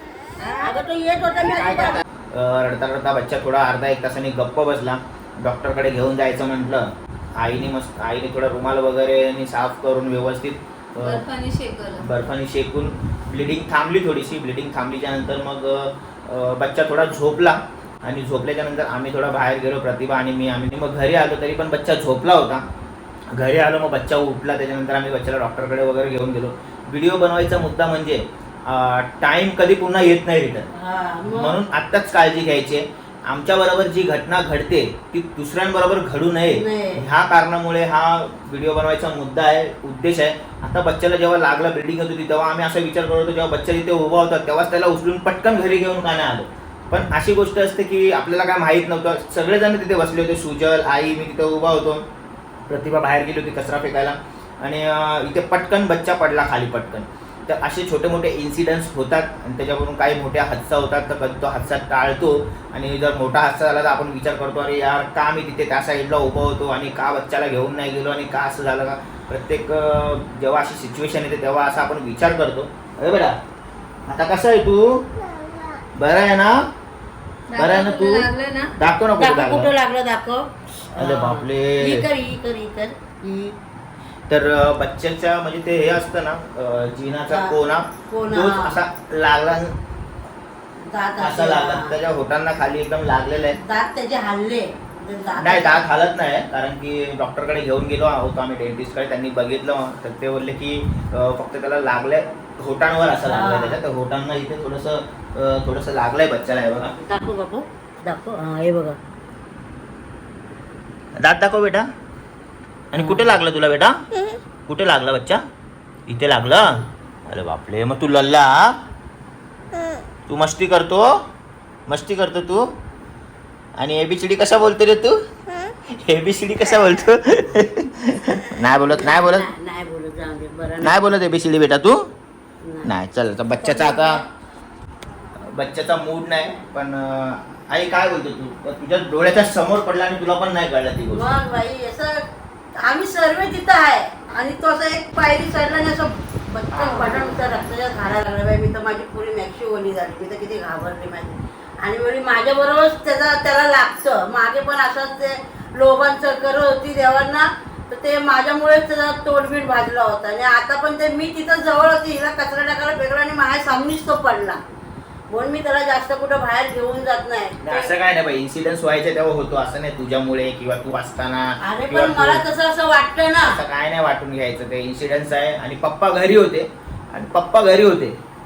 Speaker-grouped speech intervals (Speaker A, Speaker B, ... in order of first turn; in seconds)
Speaker A: 0.4-0.8, 11.0-12.1, 77.5-78.8
Speaker B: 0.6-2.0, 30.7-31.5, 36.5-37.0, 79.2-83.6, 88.0-88.8, 90.9-91.9, 93.6-95.8, 103.2-103.8, 107.0-109.0, 113.0-113.4, 127.4-127.6, 128.9-131.1, 132.6-132.9, 133.6-134.2, 141.1-142.2, 142.8-164.6, 165.3-167.9, 171.6-173.6
Speaker C: 2.3-11.2, 12.0-22.6, 23.3-30.7, 31.3-52.0, 52.7-73.4, 74.1-75.1, 76.0-76.7, 77.6-79.7, 81.0-82.1, 84.3-89.8, 91.2-93.6, 95.4-106.9, 111.2-111.9, 112.9-114.0, 114.7-115.4, 116.1-118.8, 120.3-121.1, 121.9-122.7, 123.8-125.2, 125.9-129.5, 130.8-132.1, 132.8-134.2, 135.5-141.3, 146.7-147.4, 167.6-172.4, 173.4-178.2